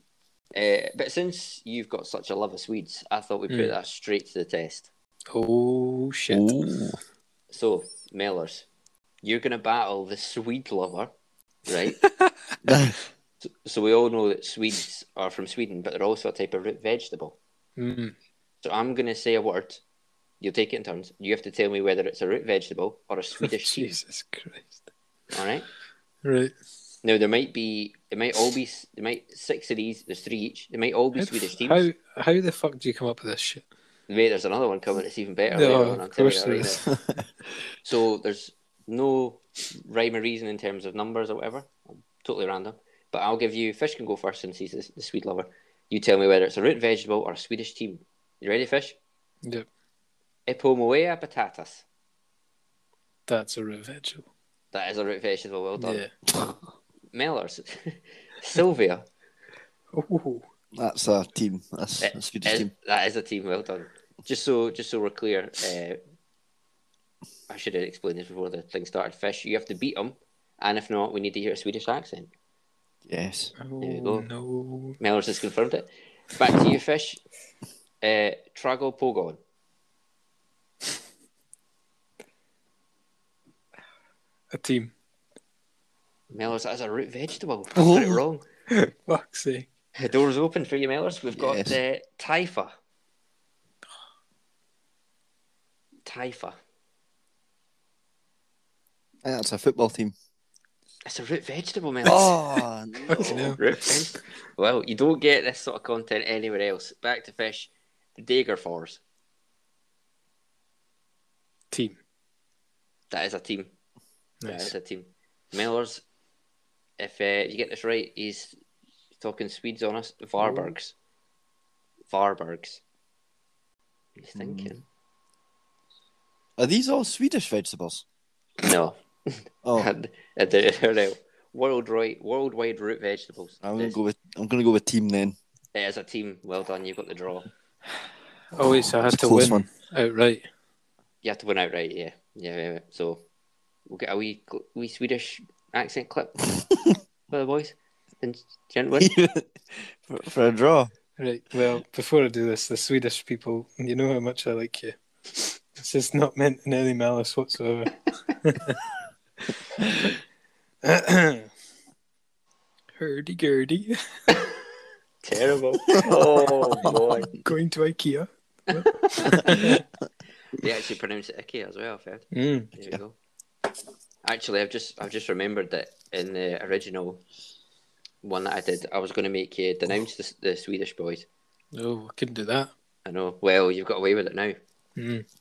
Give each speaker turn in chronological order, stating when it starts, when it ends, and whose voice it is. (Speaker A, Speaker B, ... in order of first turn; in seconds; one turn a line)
Speaker A: 0.5-4.9
Speaker B: 5.3-6.5
Speaker C: 6.3-7.0
Speaker A: 7.5-8.7
Speaker A: 9.2-11.1
Speaker A: 11.7-12.0
Speaker C: 12.7-13.0
Speaker A: 13.4-17.4
Speaker B: 17.8-18.1
Speaker A: 18.6-19.8
Speaker A: 20.4-24.0
Speaker B: 23.4-24.8
Speaker A: 25.3-25.7
Speaker B: 26.2-26.5
Speaker A: 27.0-31.9
Speaker B: 31.2-33.6
Speaker A: 34.1-36.9
Speaker B: 35.5-36.9
Speaker A: 37.8-49.0
Speaker A: 50.5-51.9
Speaker B: 53.3-54.3
Speaker A: 54.7-56.0
Speaker B: 55.8-56.1
Speaker A: 57.1-59.1
Speaker B: 59.9-60.5
Speaker C: 60.7-62.7
Speaker A: 62.0-66.0
Speaker A: 67.5-72.3
Speaker C: 73.0-73.5
Speaker B: 73.6-75.0
Speaker A: 73.8-74.3
Speaker A: 75.0-77.2
Speaker A: 78.0-79.4
Speaker B: 84.5-84.9
Speaker A: 86.3-88.5
Speaker B: 87.8-89.7
Speaker A: 90.0-92.7
Speaker C: 91.4-91.8
Speaker A: 96.0-96.6
Speaker C: 99.2-100.1
Speaker A: 101.0-102.4
Speaker C: 102.0-103.6
Speaker A: 103.1-109.0
Speaker B: 103.1-103.6
Speaker B: 111.7-112.0
Speaker A: 113.1-113.7
Speaker B: 114.4-114.7
Speaker A: 114.5-116.0
Speaker A: 117.0-118.5
Speaker A: 119.2-121.0
Speaker B: 120.4-120.7
Speaker A: 122.1-122.8
Speaker A: 124.2-124.8
Speaker C: 124.4-124.7
Speaker C: 126.6-128.0
Speaker A: 128.6-134.0
Speaker C: 129.6-129.9
Speaker C: 133.6-135.4
Speaker A: 135.7-137.5
Speaker B: 138.5-140.5
Speaker C: 139.0-139.7
Speaker A: 141.2-143.2
Speaker A: 143.9-146.4
Speaker A: 147.3-149.1
Speaker C: 149.0-150.9
Speaker B: 151.2-158.8
Speaker B: 160.8-161.5
Speaker B: 163.0-164.0
Speaker A: 165.2-167.3
Speaker C: 166.0-166.2
Speaker B: 166.0-169.8
Speaker A: 168.7-169.7
Speaker A: 170.5-173.2
Speaker B: 172.3-172.7
Speaker A: 174.2-177.2
Speaker A: 178.2-181.3
Speaker B: 181.7-182.7
Speaker A: 183.1-184.6
Speaker B: 185.0-185.3